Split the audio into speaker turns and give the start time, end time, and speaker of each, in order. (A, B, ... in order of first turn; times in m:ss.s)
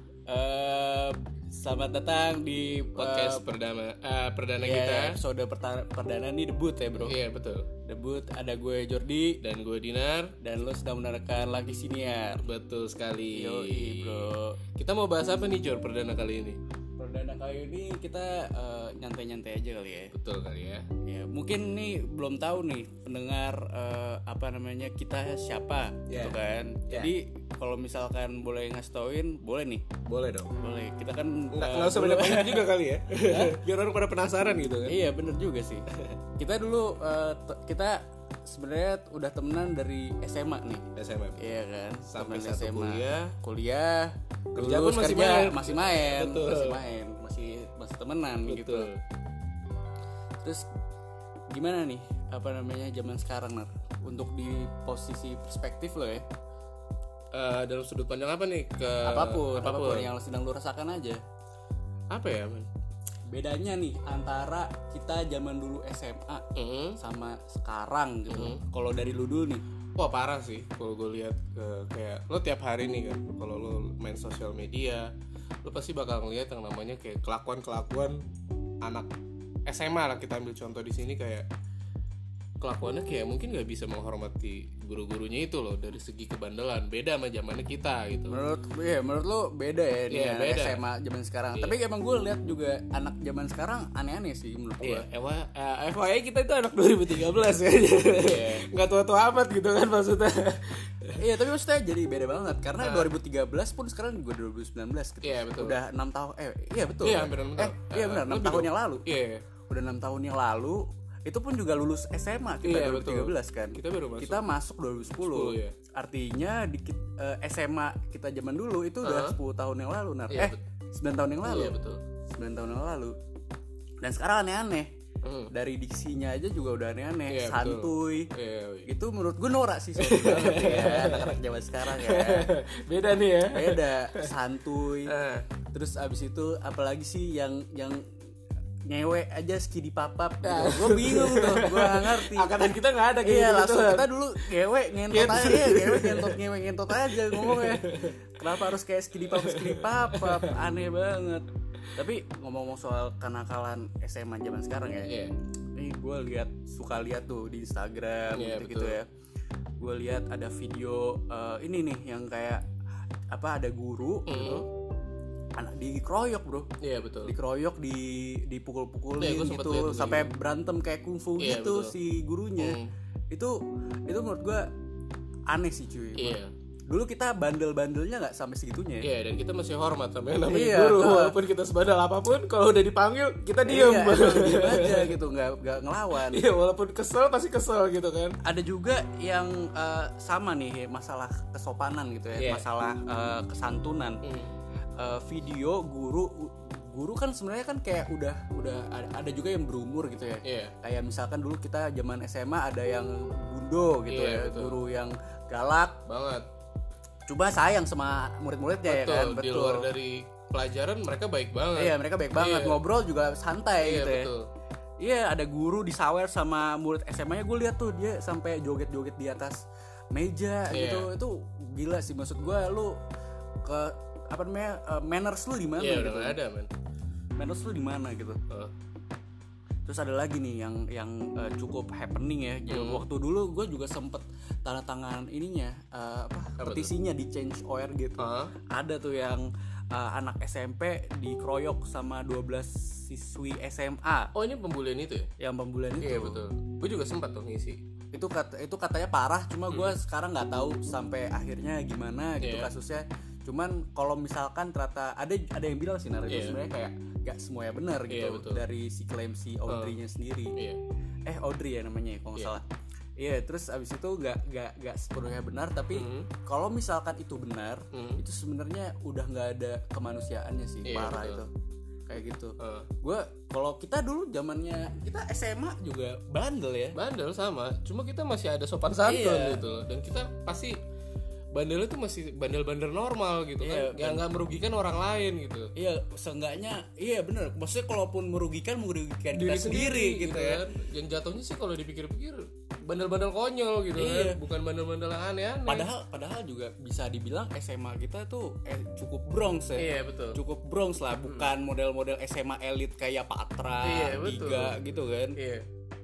0:00.3-0:03.4 A
0:03.0-0:05.2 B
0:04.6-0:07.2 A
0:07.0-0:07.7 B
0:07.8-0:09.4 A
0:09.4-0:10.3 B
0:10.4-0:12.4 A
0:12.4-0:16.6 B
0:13.3-0:14.6 A
0:17.0-0:20.1 A
0:20.1-0:20.9 B
0:21.0-0:29.8 A
0:26.1-0:26.4 B
0:30.0-0:30.5 B
0:30.6-0:32.7 A
0:31.5-0:35.0 B
0:33.2-0:33.6 A
0:34.8-0:48.9 A
0:41.0-0:43.4 B
0:44.5-0:46.8 B
0:48.4-0:49.0 B
0:51.5-0:56.2 A
0:57.3-1:00.1 B
0:59.0-1:01.2 A
1:02.1-1:02.7 B
1:03.3-1:09.6 A
1:06.5-1:07.0 B
1:08.3-1:08.6 B
1:10.0-1:15.1 B
1:15.6-1:18.2 B
1:18.8-1:19.1 B
1:19.6-1:21.5 B
1:22.6-1:28.4 B
1:28.3-1:35.0 A
1:30.1-1:30.8 B
1:31.5-1:31.8 B
1:34.8-1:41.2 B
1:38.0-1:38.7 A
1:41.2-1:49.0 A
1:42.8-1:43.1 B
1:45.2-1:45.8 B
1:47.0-1:49.4 B
1:49.7-2:01.8 A
1:52.6-1:54.4 B
1:55.2-1:55.7 B
1:59.0-1:59.4 B
2:00.3-2:00.6 B
2:01.4-2:02.0 B
2:02.3-2:03.2 A
2:04.0-2:04.9 A
2:05.2-2:05.5 B
2:05.5-2:08.3 A
2:07.3-2:08.9 B
2:08.8-2:12.5 A
2:10.0-2:14.2 B
2:13.5-2:15.1 A
2:15.0-2:15.5 B
2:15.7-2:18.0 A
2:18.8-2:22.5 A
2:20.4-2:24.4 B
2:23.2-2:35.2 A
2:25.1-2:28.2 B
2:29.2-2:30.6 B
2:35.1-2:35.3 B
2:35.8-2:39.1 A
2:38.3-2:39.0 B
2:39.8-2:42.6 A
2:43.3-2:44.7 A
2:44.3-2:44.6 B
2:45.6-2:46.7 A
2:46.8-2:47.3 B
2:47.2-2:52.8 A
2:49.2-2:50.3 B
2:51.4-2:52.0 B
2:52.6-2:52.9 B
2:53.3-2:54.7 A
2:55.5-2:59.1 A
2:56.2-2:56.5 B
2:59.0-3:05.1 B
3:00.5-3:01.4 A
3:03.6-3:06.4 A
3:06.1-3:08.4 B
3:08.4-3:14.2 A
3:12.4-3:12.6 B
3:14.2-3:14.5 B
3:15.0-3:26.0 A
3:20.4-3:20.7 B
3:24.1-3:24.8 B
3:26.0-3:26.4 B
3:27.3-3:29.9 A
3:28.8-3:32.8 B
3:31.8-3:34.3 A
3:33.8-3:34.4 B
3:35.0-3:39.6 A
3:40.1-3:43.0 A
3:40.7-3:41.1 B
3:43.6-3:46.4 A
3:45.8-3:46.7 B
3:47.4-3:48.4 A
3:49.8-4:04.3 A
3:52.7-3:53.0 B
3:56.6-3:56.9 B
3:58.2-3:58.5 B
4:04.3-4:05.3 B
4:05.4-4:06.4 A
4:06.0-4:07.8 B
4:08.1-4:20.6 A
4:09.7-4:10.0 B
4:12.4-4:12.7 B
4:16.3-4:16.6 B
4:18.1-4:18.6 B
4:19.7-4:20.0 B
4:21.2-4:22.6 A
4:23.2-4:31.5 A
4:25.9-4:26.3 B
4:27.9-4:28.2 B
4:30.8-4:31.4 B
4:32.1-4:37.0 A
4:32.6-4:32.9 B
4:36.9-4:40.8 B
4:39.0-4:39.6 A
4:41.5-4:45.7 B
4:43.6-4:44.2 A
4:45.8-4:50.6 A
4:49.3-4:55.9 B
4:53.9-4:54.4 A
4:55.7-5:05.4 A
4:59.8-5:00.4 B
5:01.2-5:01.5 B
5:03.8-5:04.8 B
5:05.3-5:05.7 B